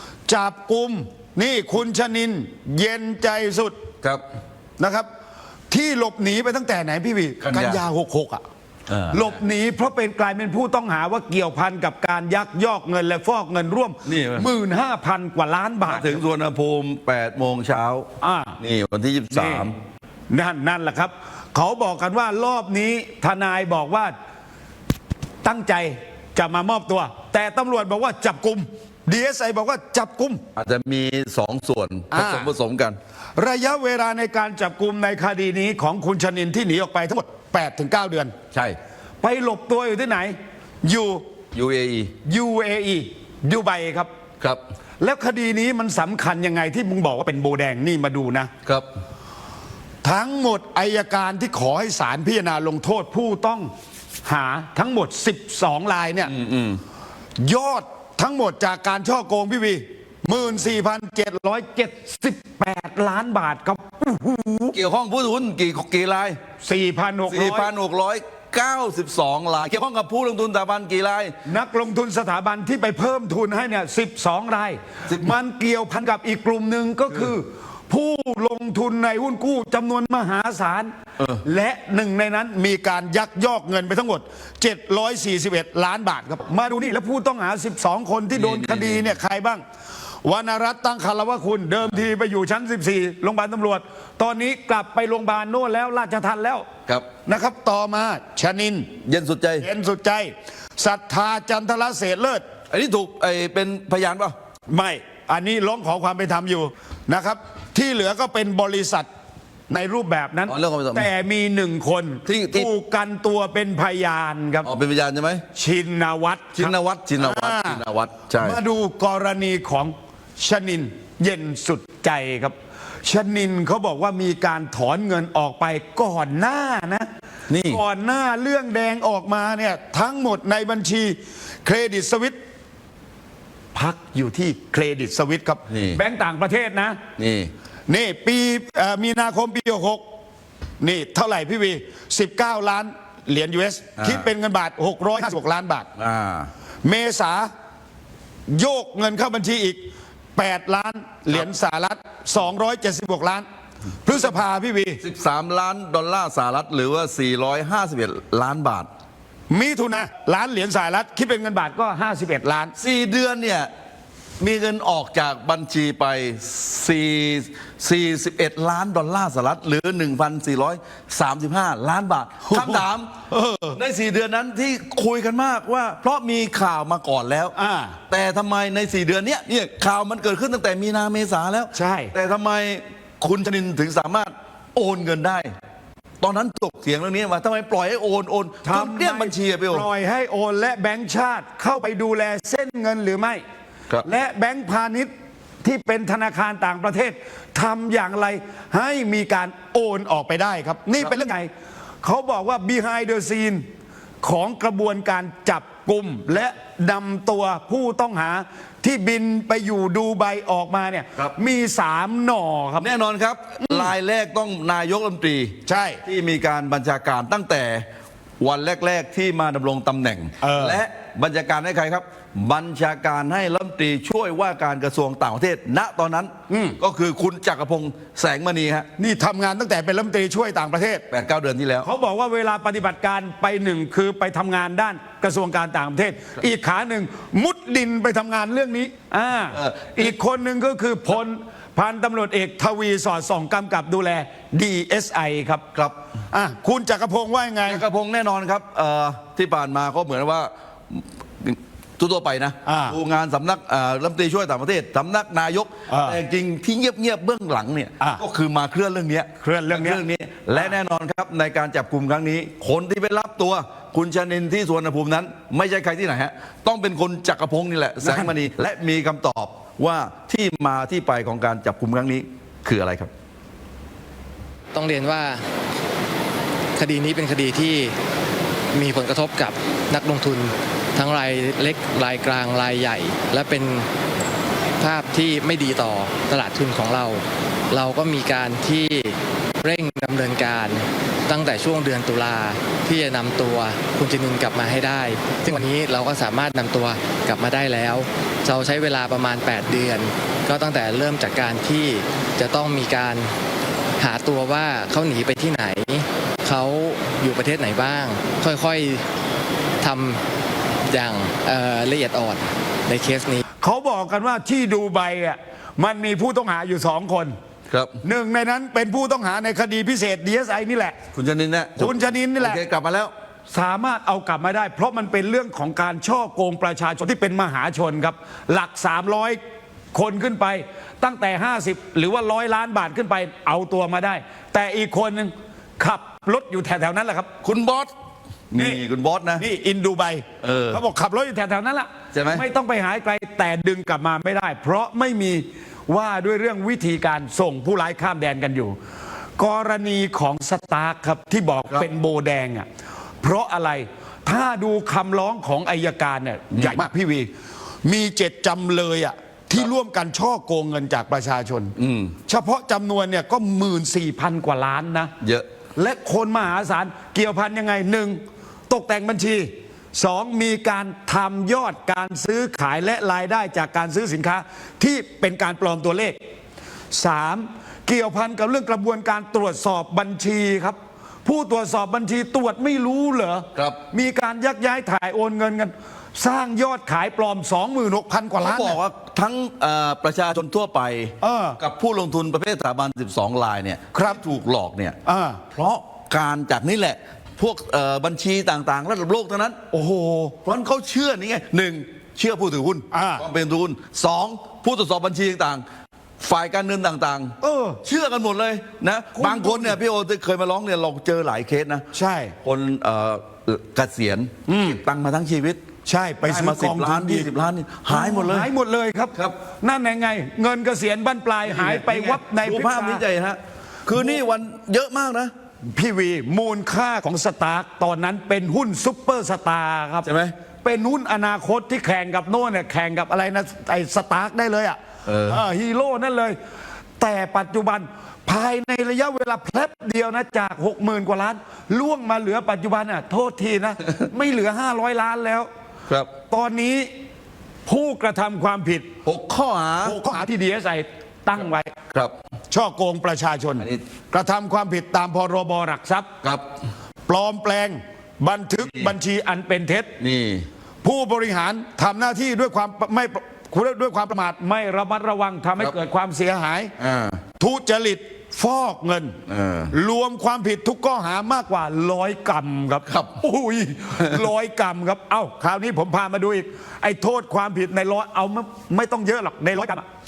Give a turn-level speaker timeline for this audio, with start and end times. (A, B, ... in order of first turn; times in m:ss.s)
0:00.3-0:03.7 A
0:04.8-0:05.1 A
0:05.7-0:08.4 A
0:07.4-0:07.8 B
0:08.9-0:09.4 B
0:09.1-0:16.2 A
0:14.0-0:14.5 B
0:15.8-0:18.1 B
0:18.2-0:18.6 A
0:18.6-0:19.7 B
0:19.3-0:19.7 A
0:20.3-0:24.1 A
0:25.4-0:30.4 A
0:30.6-0:33.0 B
0:32.1-0:32.5 A
0:33.4-0:38.3 A
0:39.2-0:41.2 A
0:41.5-0:42.1 B
0:42.2-0:44.1 A
0:45.0-0:48.5 A
0:50.0-0:53.7 A
0:54.2-0:56.3 A
0:56.2-0:56.8 B
0:57.4-1:04.8 A
1:04.7-1:06.4 B
1:06.6-1:07.7 A
1:07.3-1:11.3 B
1:11.4-1:20.9 A
1:15.1-1:15.3 B
1:21.4-1:29.6 A
1:28.3-1:29.1 B
1:30.2-1:36.6 A
1:37.2-1:38.9 A
1:39.0-1:39.6 B
1:39.6-1:42.4 A
1:42.7-1:44.3 B
1:44.7-1:49.1 A
1:49.7-1:54.7 A
1:50.5-1:51.1 B
1:52.2-1:52.7 B
1:54.6-1:55.4 B
1:55.5-1:57.8 A
1:56.6-1:58.6 B
1:58.4-2:07.1 A
2:07.5-2:07.8 B
2:07.6-2:12.4 A
2:13.7-2:17.0 A
2:15.7-2:16.0 B
2:17.2-2:17.5 B
2:17.9-2:20.0 A
2:20.8-2:25.9 A
2:24.0-2:24.3 B
2:26.0-2:26.5 B
2:26.8-2:27.5 A
2:28.5-2:29.8 A
2:30.4-2:33.4 A
2:34.0-2:35.0 A
2:35.0-2:38.9 B
2:39.5-2:42.7 A
2:42.8-2:43.7 B
2:44.4-2:53.1 B
2:52.4-2:53.8 A
2:53.7-2:57.5 B
2:57.5-2:58.0 A
2:58.1-3:05.5 B
3:01.7-3:02.1 A
3:06.2-3:09.8 B
3:08.6-3:13.4 A
3:14.0-3:15.1 A
3:15.6-3:21.5 A
3:22.0-3:23.6 A
3:24.2-3:32.9 A
3:32.8-3:37.8 B
3:33.6-3:33.9 A
3:35.6-3:36.0 A
3:38.4-3:48.9 B
3:40.4-3:40.8 A
3:46.5-3:46.8 A
3:49.0-3:51.0 A
3:51.1-3:51.9 B
3:51.8-4:05.6 A
3:59.5-4:00.1 B
4:06.3-4:07.8 A
4:07.6-4:33.1 B
4:12.6-4:13.0 A
4:15.9-4:16.2 A
4:19.4-4:20.0 A
4:28.0-4:28.3 A
4:34.7-4:35.4 C
4:36.8-4:37.9 C
4:38.7-4:43.9 C
4:44.8-5:03.3 C
5:04.0-5:09.0 C
5:09.8-5:10.2 C
5:10.9-5:13.4 C
5:13.6-5:17.3 A
5:17.7-5:18.0 B
5:18.0-5:21.0 A
5:21.1-5:23.1 B
5:21.8-5:22.6 A
5:23.5-5:29.4 A
5:29.9-5:37.3 A
5:37.4-5:37.9 B
5:38.5-5:39.4 B
5:39.4-5:48.8 A
5:40.4-5:40.8 B
5:42.1-5:42.4 B
5:49.4-5:52.7 A
5:53.2-5:57.3 A
5:56.5-5:56.8 B
5:57.8-6:01.7 A
6:01.8-6:02.1 B
6:02.3-6:05.1 A
6:05.2-6:05.5 B
6:05.8-6:16.2 A
6:16.9-6:28.8 A
6:28.4-6:35.0 B
6:31.2-6:31.6 A
6:33.9-6:34.2 A
6:35.0-6:35.4 A
6:35.5-6:39.6 B
6:39.7-6:40.4 A
6:40.4-6:45.6 B
6:42.9-6:43.2 A
6:46.2-6:51.9 B
6:47.4-6:47.8 A
6:49.1-6:49.8 A
6:51.9-6:52.3 A
6:52.4-6:55.6 B
6:54.5-6:54.8 A
6:55.8-6:57.3 A
6:56.2-6:58.5 B
6:57.9-7:03.0 A
7:01.4-7:05.3 B
7:03.9-7:04.2 A
7:05.7-7:10.1 A
7:10.0-7:10.3 B
7:10.6-7:16.4 A
7:15.0-7:15.4 B
7:17.0-7:25.5 A
7:26.3-7:26.9 A
7:27.6-7:28.9 A
7:29.0-7:30.0 B
7:29.8-7:31.7 A
7:32.5-7:36.1 A
7:37.1-7:39.9 A
7:38.6-7:38.9 B
7:40.0-7:40.5 B
7:40.8-7:46.7 A
7:46.8-7:47.2 B
7:47.4-7:49.2 A
7:49.3-7:49.7 B
7:49.7-7:59.8 A
7:52.8-7:53.2 B